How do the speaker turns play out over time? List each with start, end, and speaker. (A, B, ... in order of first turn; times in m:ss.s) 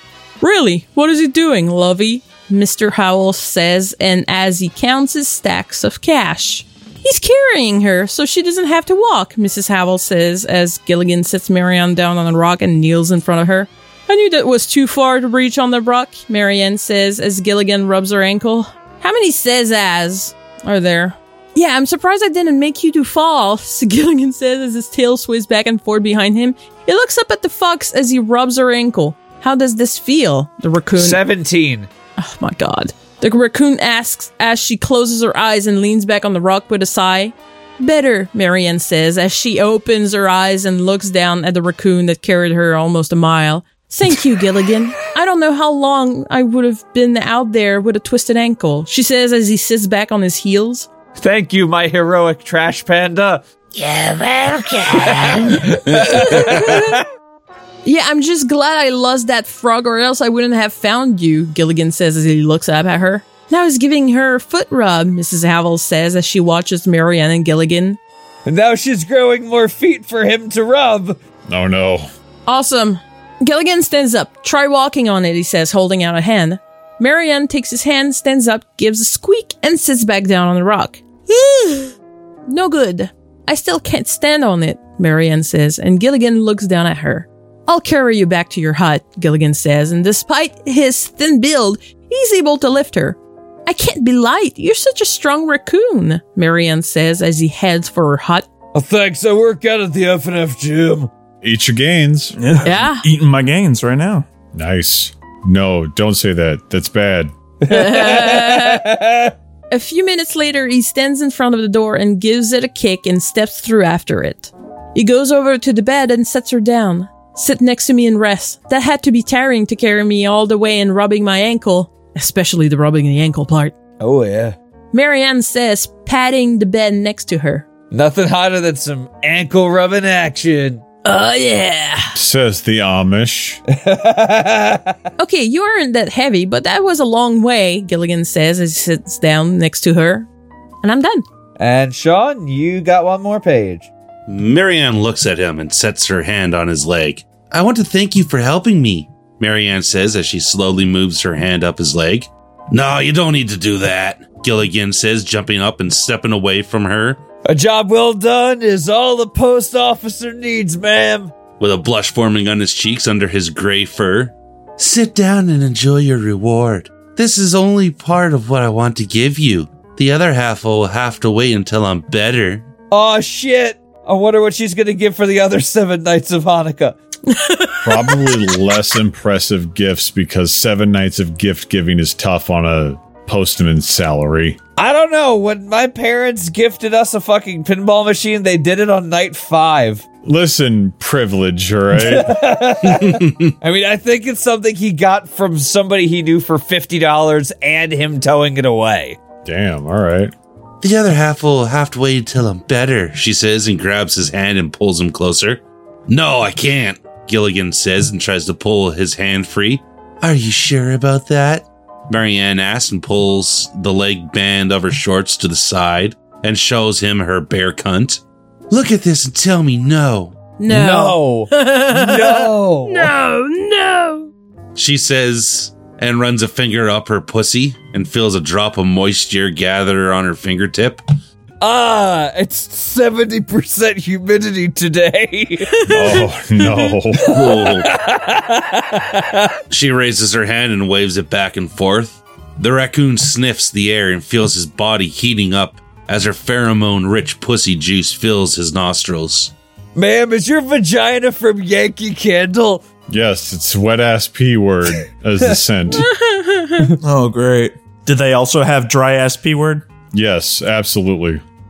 0:00.4-0:31.2 A
0:30.9-0:31.9 B
0:32.2-0:50.9 A
0:51.2-0:54.0 B
0:54.6-0:57.0 B
0:56.1-0:57.0 A
0:57.8-1:08.0 A
1:08.4-1:11.2 B
1:11.5-1:12.1 C
1:12.5-1:21.9 A
1:22.5-1:38.5 A
1:38.7-1:41.1 B
1:41.4-1:42.4 C
1:42.4-1:44.2 D
1:42.6-1:43.0 A
1:44.5-1:47.3 C
1:47.6-1:49.3 B
1:47.7-1:48.8 A
1:49.7-2:03.7 A
2:04.0-2:04.6 B
2:04.9-2:07.7 A
2:07.9-2:10.8 B
2:11.0-2:12.1 A
2:12.1-2:13.6 C
2:13.7-2:14.9 B
2:15.2-2:20.3 A
2:20.8-2:21.2 A
2:21.6-2:23.9 B
2:24.3-2:37.2 E
2:37.4-2:41.3 B
2:41.6-2:52.6 E
2:52.9-2:57.0 B
2:57.3-2:58.4 A
2:57.8-3:04.6 C
3:04.8-3:10.0 B
3:10.2-3:12.4 C
3:11.9-3:19.2 B
3:12.9-3:13.5 E
3:19.4-3:20.3 C
3:20.8-3:40.4 E
3:40.6-3:44.3 A
3:40.7-3:43.1 B
3:44.7-3:51.0 E
3:51.6-3:55.9 B
3:55.7-3:56.2 A
3:55.9-3:57.4 C
3:57.2-3:59.5 B
3:57.3-3:57.9 E
3:59.7-4:09.5 E
4:09.9-4:12.8 B
4:13.1-4:16.1 C
4:16.0-4:16.9 A
4:17.0-4:19.8 D
4:20.1-4:21.4 C